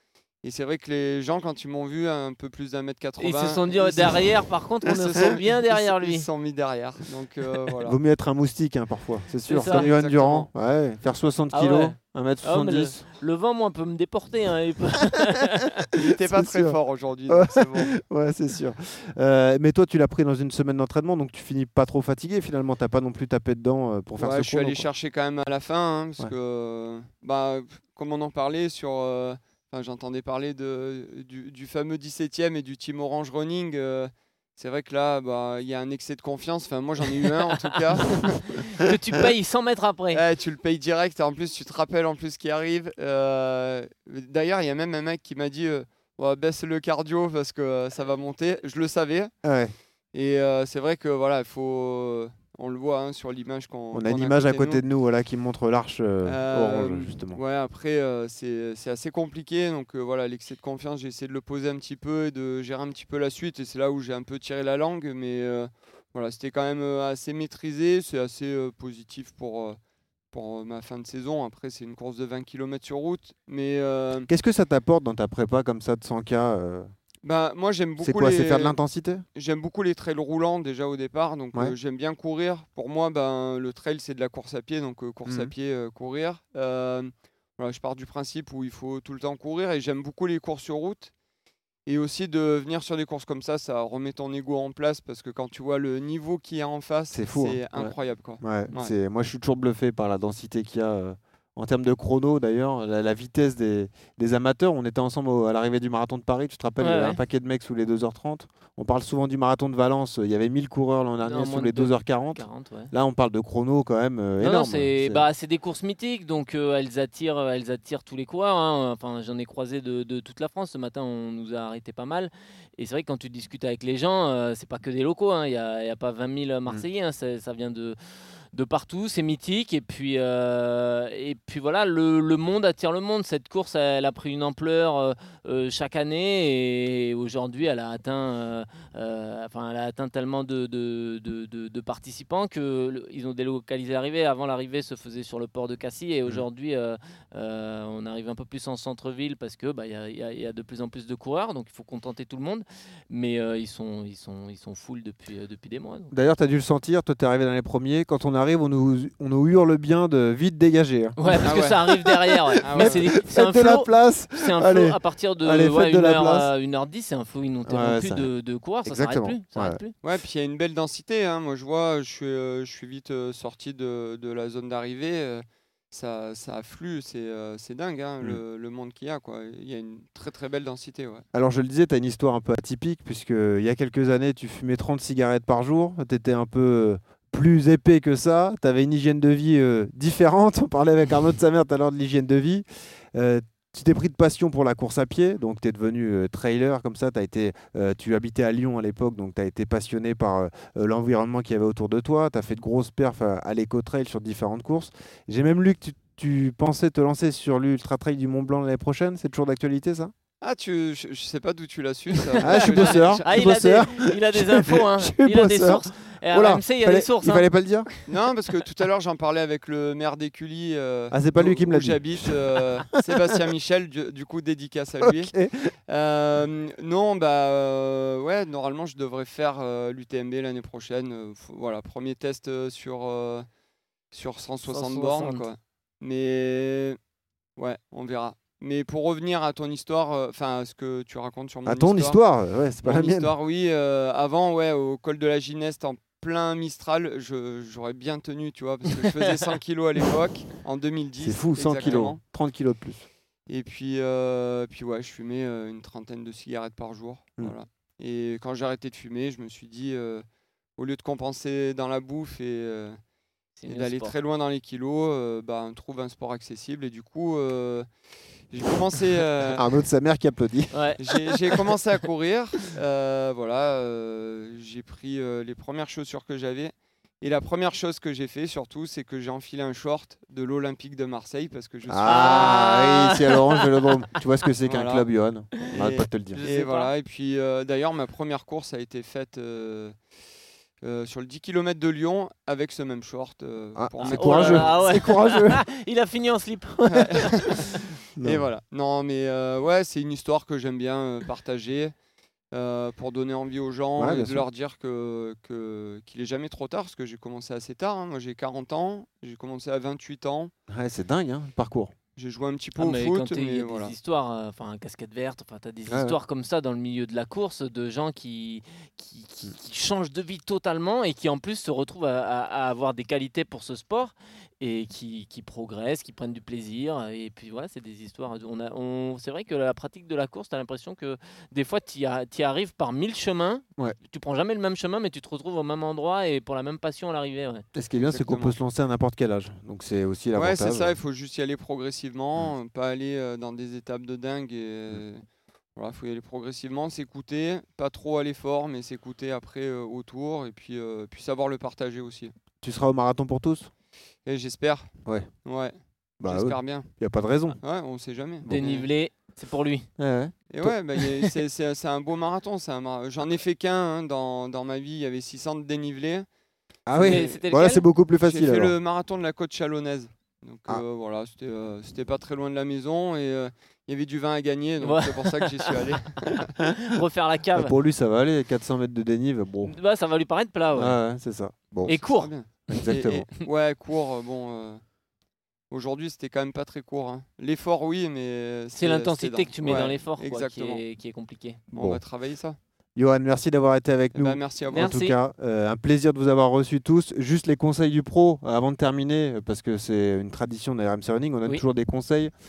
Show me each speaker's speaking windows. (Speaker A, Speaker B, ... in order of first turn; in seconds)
Speaker A: 0.4-4.4, 5.7-8.0, 9.6-10.4, 16.0-17.9, 24.2-38.5, 40.1-49.3, 50.1-54.8, 56.2-69.8, 70.3-74.3, 77.2-78.8, 79.3-91.1, 91.8-98.9, 161.4-161.8, 162.6-163.0, 170.0-181.2, 210.4-213.4, 218.1-225.3, 225.9-233.5, 234.1-237.0, 237.6-242.2, 242.8-252.2, 253.5-263.0, 263.6-269.6, 271.0-282.6, 284.7-285.1, 285.7-290.1, 290.8-294.9, 296.9-301.9, 302.5-310.5, 312.1-313.9, 337.9-338.5, 340.3-352.3, 354.2-358.9, 360.5-366.3, 366.9-367.4, 368.1-376.4, 381.9-384.8, 385.7-390.8, 391.7-392.6, 394.1-395.0
Speaker B: 3.2-6.3, 9.5-10.5, 11.5-15.7, 38.8-40.2, 106.8-107.2, 111.2-112.9, 114.4-128.0, 128.5-156.1, 161.2-169.9, 212.4-217.5, 234.7-235.5, 263.6-264.1, 270.7-271.0, 282.0-283.7, 286.3-286.9, 294.1-297.2, 312.8-337.6, 358.5-359.9, 366.9-367.9, 374.8-375.5, 376.9-377.7, 379.6-381.0, 381.9-382.3, 388.7-391.6, 394.7-395.2
Speaker C: 7.8-13.1, 16.0-16.7, 17.3-24.9, 49.4-49.7, 53.9-57.4, 74.3-76.9, 78.0-79.2, 85.2-85.5, 97.1-115.3, 156.1-166.5, 167.7-169.8, 181.3-210.1, 212.4-217.9, 221.1-222.3, 225.1-225.7, 241.7-243.3, 251.2-253.1, 269.6-270.9, 281.9-286.4, 293.8-295.6, 298.1-298.4, 304.0-304.4, 310.7-311.9, 315.9-316.2, 337.7-340.9, 352.6-353.7, 355.0-355.3, 356.2-357.6, 358.4-358.8, 360.0-360.7, 366.9-368.7, 377.5-379.8, 380.7-383.3, 391.8-392.0, 392.9-402.3